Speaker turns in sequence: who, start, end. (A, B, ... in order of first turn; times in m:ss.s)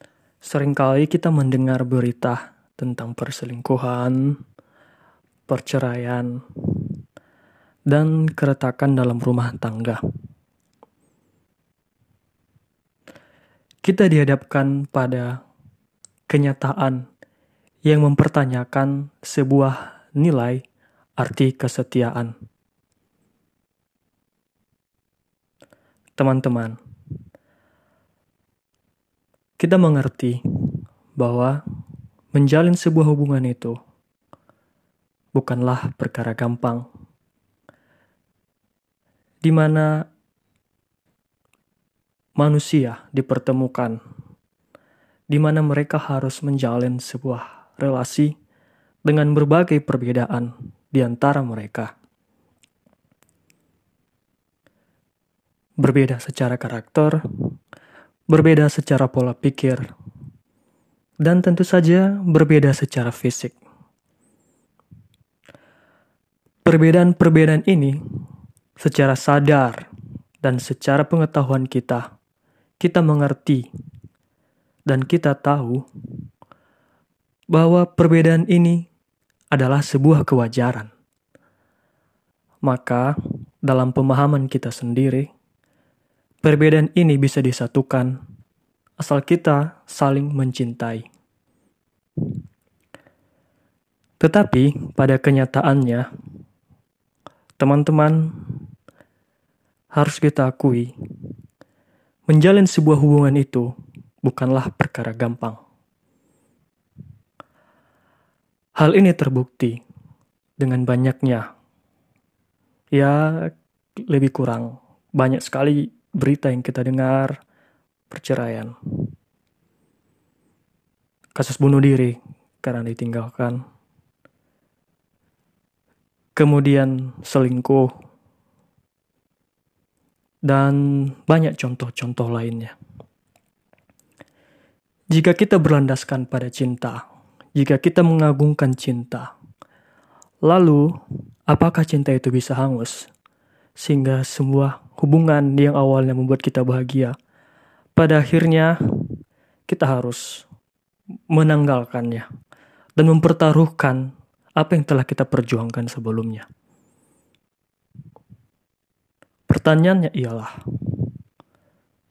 0:00.4-0:04.4 A
0:05.5-0:07.0 A
0:07.9-0:10.0 A
0:13.8-0:15.4 A
0:16.3-0:17.1 A
0:17.8-0:20.6 A
0:21.2-0:22.3 A
0:26.2-0:26.8 A
0:29.6-0:31.6 A
0:32.3-0:33.8 A
0:35.4-0:36.9 A
0:39.4-0:40.0 A
0:42.4-0:44.0 A
0:45.3-0:48.3 A
0:49.0-0:51.9 A
0:55.8-0:57.5 A
0:58.3-0:59.9 A
1:01.2-1:03.6 A
1:06.6-1:08.0 A
1:08.8-1:09.9 A
1:10.4-1:12.1 A
1:12.8-1:13.7 A
1:14.9-1:16.3 A
1:17.5-1:18.9 A
1:19.5-1:20.9 A
1:22.6-1:25.3 A
1:26.4-1:28.2 A
1:29.0-1:31.1 A
1:34.2-1:36.1 A
1:37.6-1:38.7 A
1:39.9-1:41.3 A
1:42.3-1:43.7 A
1:44.2-1:45.6 A
1:48.8-1:49.8 A
1:50.6-1:51.5 A
1:52.9-1:57.4 A
1:58.1-1:59.1 A
2:01.4-2:03.6 A
2:06.4-2:07.9 A
2:10.4-2:12.8 A
2:15.1-2:19.3 A
2:20.4-2:23.1 A
2:23.8-2:27.2 A
2:28.0-2:29.2 A
2:29.7-2:30.4 A
2:31.3-2:32.3 A
2:33.0-2:36.5 A
2:39.5-2:41.1 A